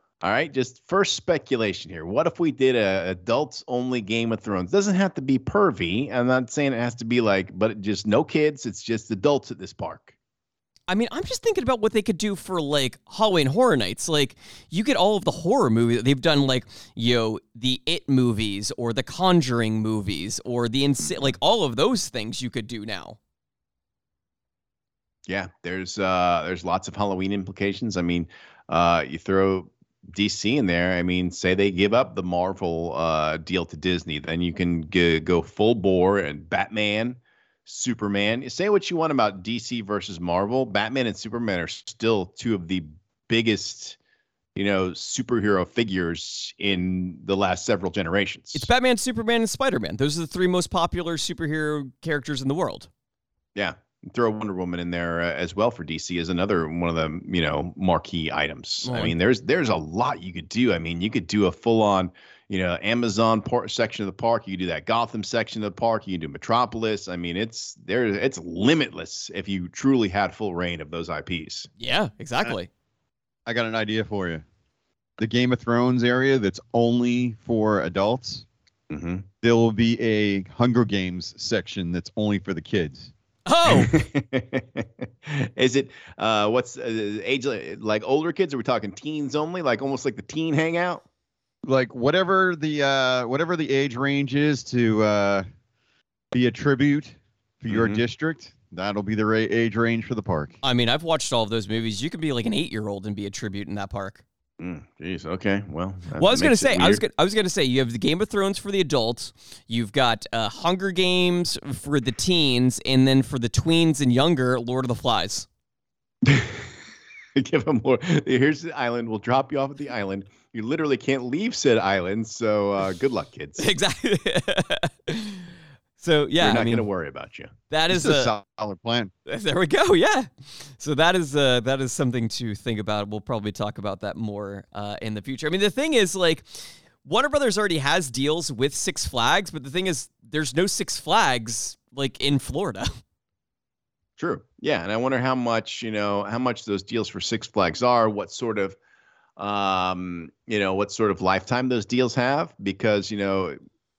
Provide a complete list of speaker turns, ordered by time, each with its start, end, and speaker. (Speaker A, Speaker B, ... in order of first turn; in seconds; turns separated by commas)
Speaker A: 0.2-10.1, Speaker B: 10.9-23.2, Speaker A: 21.0-21.3, Speaker A: 25.3-44.0, Speaker A: 44.5-48.7, Speaker B: 48.5-52.9, Speaker A: 53.5-71.7, Speaker B: 58.8-59.1, Speaker B: 71.8-72.7, Speaker C: 73.5-74.4, Speaker C: 75.2-78.4, Speaker A: 78.9-79.3, Speaker C: 79.4-83.1, Speaker B: 83.5-84.0, Speaker A: 83.7-91.0, Speaker C: 91.7-95.4, Speaker C: 96.3-100.6, Speaker A: 97.7-98.0, Speaker B: 100.6-104.2, Speaker A: 104.6-107.0, Speaker B: 106.2-115.5, Speaker A: 116.2-116.7, Speaker A: 117.3-123.7, Speaker B: 123.6-125.5, Speaker B: 126.0-126.8, Speaker A: 126.4-127.5, Speaker B: 127.7-128.3, Speaker C: 127.9-129.1, Speaker B: 129.3-136.4, Speaker B: 137.0-142.9, Speaker A: 144.2-148.8, Speaker A: 149.4-153.6